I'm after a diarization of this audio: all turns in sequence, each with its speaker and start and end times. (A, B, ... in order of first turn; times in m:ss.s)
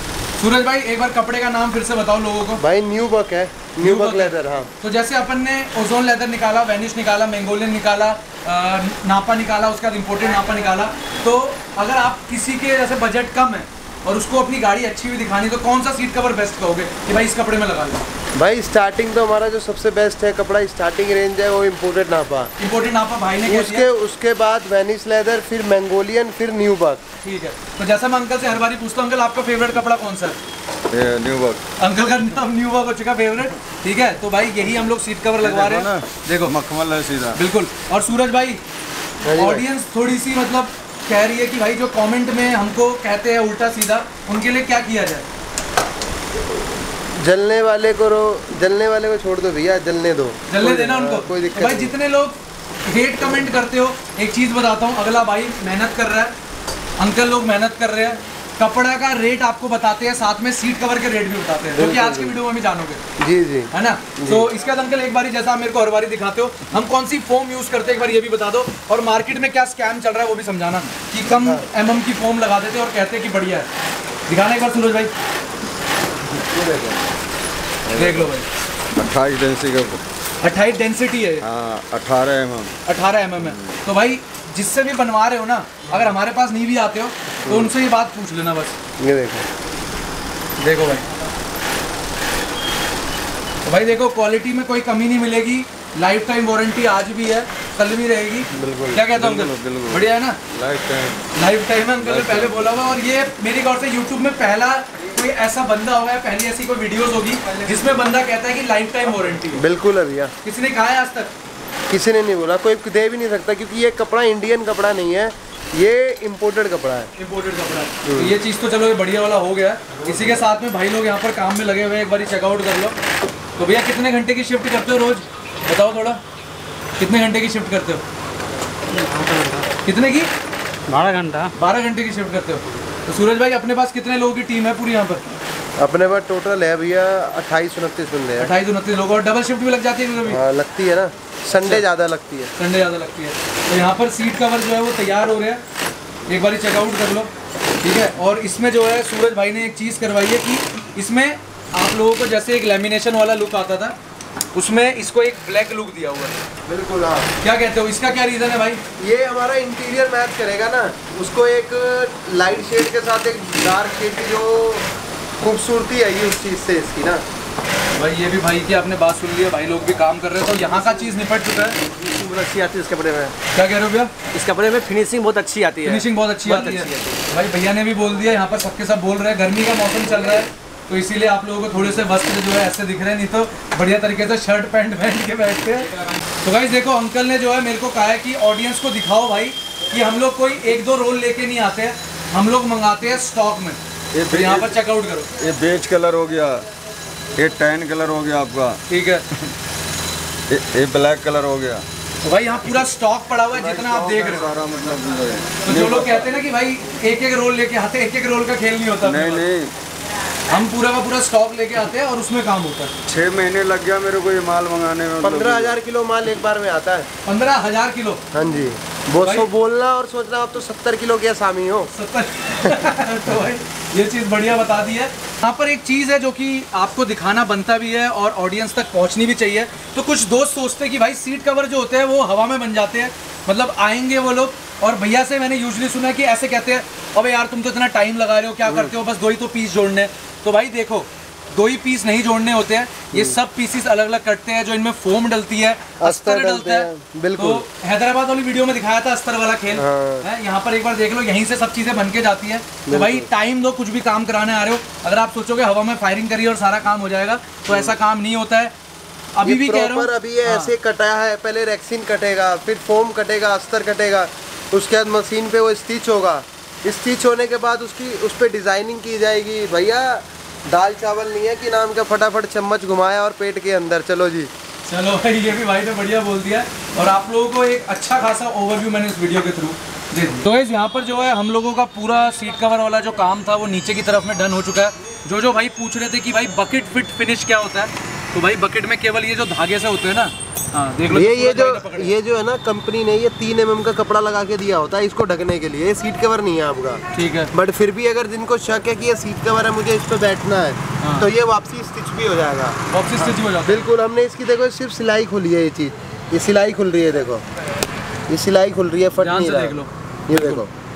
0:00.4-0:02.6 A
0:02.6-0:04.7 B
0:03.8-0:18.1 A
0:18.4-0:22.5 B
0:22.6-0:23.8 A
0:23.4-0:27.0 B
0:27.2-0:30.4 A
0:30.9-0:31.6 C
0:31.8-0:36.5 A
0:35.4-0:37.4 C
0:37.4-0:38.6 A
0:39.2-0:39.6 B
0:39.4-0:45.2 A
0:47.2-0:51.9 B
0:50.5-0:52.3 A
0:52.8-0:56.3 A
0:57.0-1:03.0 A
1:01.7-1:02.4 B
1:03.2-1:04.5 B
1:03.7-1:13.7 A
1:11.3-1:11.6 B
1:14.3-1:15.1 A
1:16.5-1:17.0 B
1:17.9-1:18.3 C
1:17.9-1:18.5 A
1:18.9-1:20.0 C
1:20.4-1:21.4 A
1:21.4-1:22.8 C
1:22.8-1:28.8 A
1:23.4-1:23.8 C
1:27.4-1:27.7 B
1:29.0-1:29.5 B
1:30.6-1:31.0 A
1:33.6-1:40.4 A
1:38.5-1:39.0 B
1:39.1-1:41.2 C
1:41.3-1:49.6 A
1:42.0-1:42.8 C
1:49.5-1:50.3 B
1:50.4-1:51.3 A
1:51.9-1:57.1 B
1:57.2-2:03.0 A
1:58.0-1:58.3 B
2:03.6-2:06.2 A
2:07.0-2:08.0 A
2:08.9-2:09.7 D
2:09.8-2:10.3 A
2:10.9-2:11.5 D
2:11.6-2:15.2 A
2:15.8-2:18.5 B
2:18.4-2:20.4 A
2:20.3-2:22.5 B
2:22.6-2:25.6 A
2:26.3-2:27.3 A
2:27.8-2:33.9 A
2:34.5-2:36.3 A
2:36.7-2:37.3 B
2:37.4-2:38.8 A
2:39.0-2:44.8 B
2:45.4-2:47.2 B
2:47.9-2:51.8 A
2:52.0-2:53.3 D
2:53.5-2:54.1 A
2:54.3-2:57.2 D
2:55.8-3:05.9 A
3:06.4-3:13.8 A
3:14.1-3:14.8 C
3:14.3-3:15.3 A
3:15.4-3:16.6 C
3:17.4-3:18.8 C
3:18.9-3:19.2 A
3:20.5-3:21.8 C
3:22.2-3:24.5 A
3:23.5-3:26.4 C
3:25.6-3:29.4 A
3:29.0-3:29.7 C
3:30.5-3:32.9 A
3:33.1-3:35.8 C
3:35.2-3:37.1 B
3:37.2-3:38.2 A
3:38.3-3:41.9 B
3:39.2-3:39.5 A
3:41.9-4:18.7 A
3:58.6-3:58.9 B
4:06.0-4:07.6 B
4:09.8-4:10.2 B
4:12.9-4:13.3 B
4:19.3-4:20.7 A
4:19.4-4:34.5 B
4:34.9-4:52.1 A
4:51.1-5:07.4 B
4:57.1-4:57.5 A
5:01.0-5:01.3 A
5:02.9-5:03.8 A
5:08.3-5:10.7 B
5:09.2-5:10.6 A